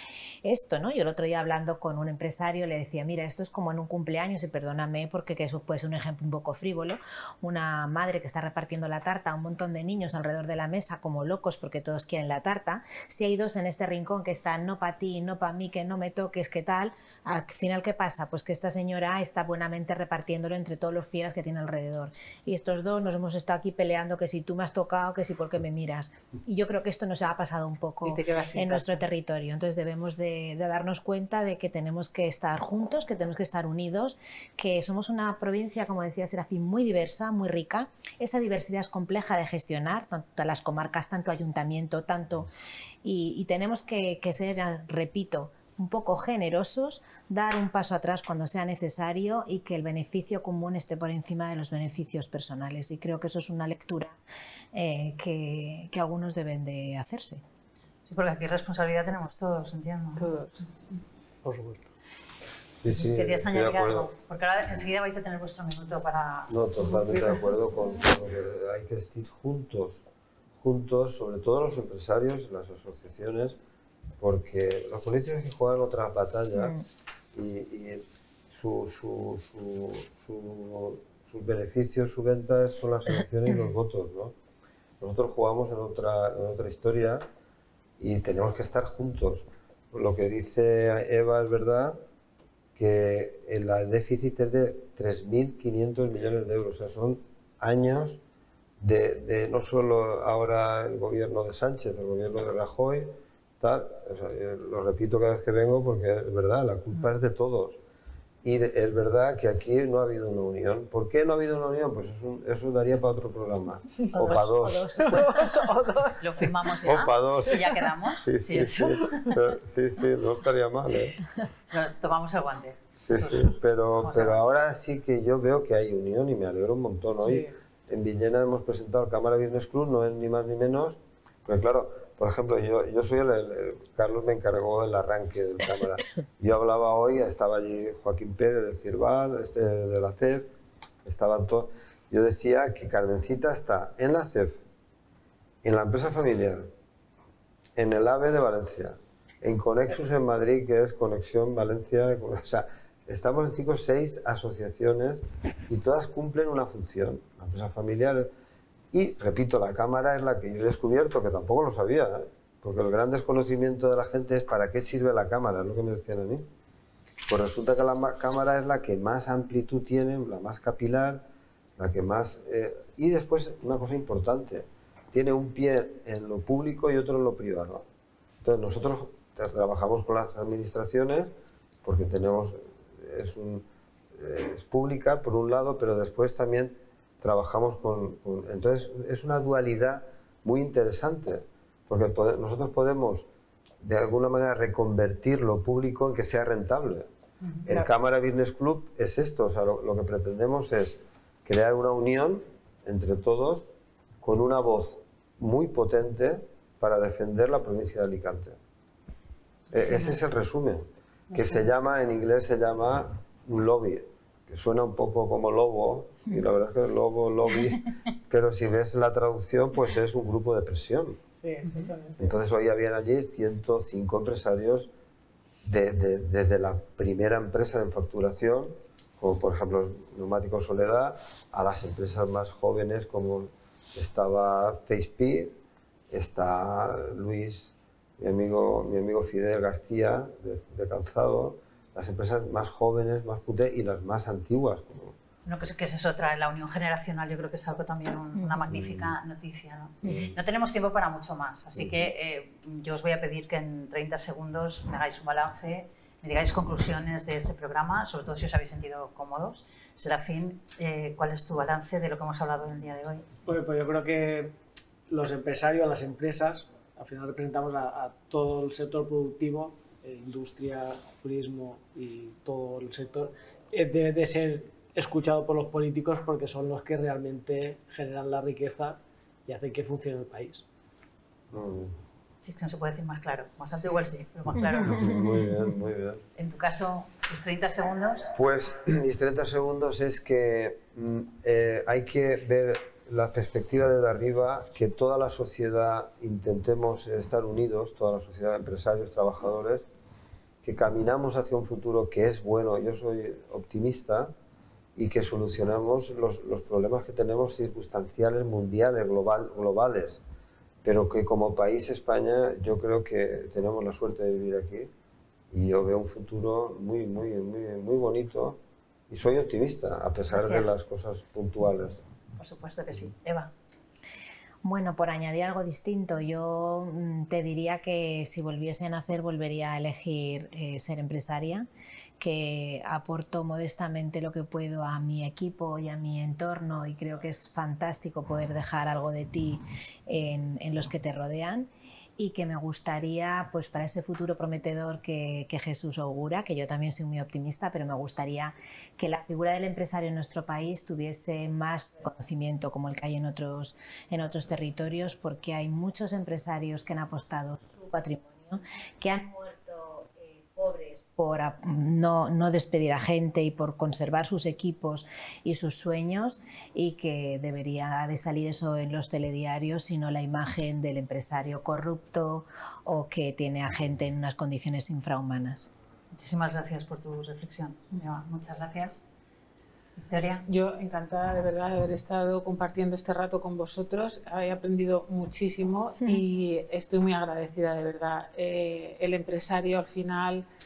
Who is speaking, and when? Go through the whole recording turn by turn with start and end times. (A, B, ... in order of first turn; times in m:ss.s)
0:00.4-0:42.5 A
0:28.1-0:29.0 B
0:43.0-0:54.2 A
0:54.7-0:57.4 A
0:58.1-1:00.3 C
1:00.2-1:00.6 B
1:02.8-1:04.1 D
1:02.9-1:06.5 C
1:06.5-1:10.0 D
1:06.9-1:07.3 B
1:10.6-1:13.6 D
1:14.2-1:16.8 D
1:16.6-1:16.8 A
1:17.3-1:24.3 D
1:25.0-1:27.2 D
1:28.0-1:32.0 D
1:32.8-1:38.2 D
1:38.8-1:47.8 D
1:48.4-1:54.9 D
1:54.0-1:56.5 B
1:54.1-1:55.5 A
1:56.2-1:59.4 C
1:56.9-2:01.2 D
2:01.7-2:04.4 C
2:03.0-2:20.5 D
2:07.2-2:07.6 B
2:21.0-2:24.6 D
2:25.6-2:26.7 D
2:27.8-2:38.3 D
2:38.9-2:46.5 D
2:47.3-2:51.2 D
2:51.8-2:57.9 D
2:58.4-3:01.3 D
3:01.8-3:13.3 D
3:13.8-3:17.1 D
3:17.7-3:23.7 D
3:24.2-3:28.6 D
3:29.7-3:41.2 D
3:41.4-3:42.2 B
3:42.2-3:44.9 D
3:45.6-3:55.6 D
3:56.1-4:05.2 D
4:05.5-4:23.2 C
4:08.4-4:08.7 A
4:08.7-4:09.1 D
4:10.0-4:10.4 D
4:11.8-4:12.0 D
4:23.5-4:24.6 E
4:25.1-4:40.6 E
4:41.5-4:41.9 D
4:42.4-4:45.2 C
4:44.6-4:45.7 A
4:44.6-4:46.2 D
4:46.4-4:48.3 C
4:48.4-4:59.9 D
5:00.6-5:04.3 D
5:05.0-5:10.2 D
5:10.8-5:14.9 D
5:15.5-5:22.0 D
5:22.4-5:23.5 C
5:24.6-5:31.7 A
5:32.2-6:15.7 A
6:16.1-6:19.1 C
6:20.0-6:20.4 C
6:20.5-6:30.5 B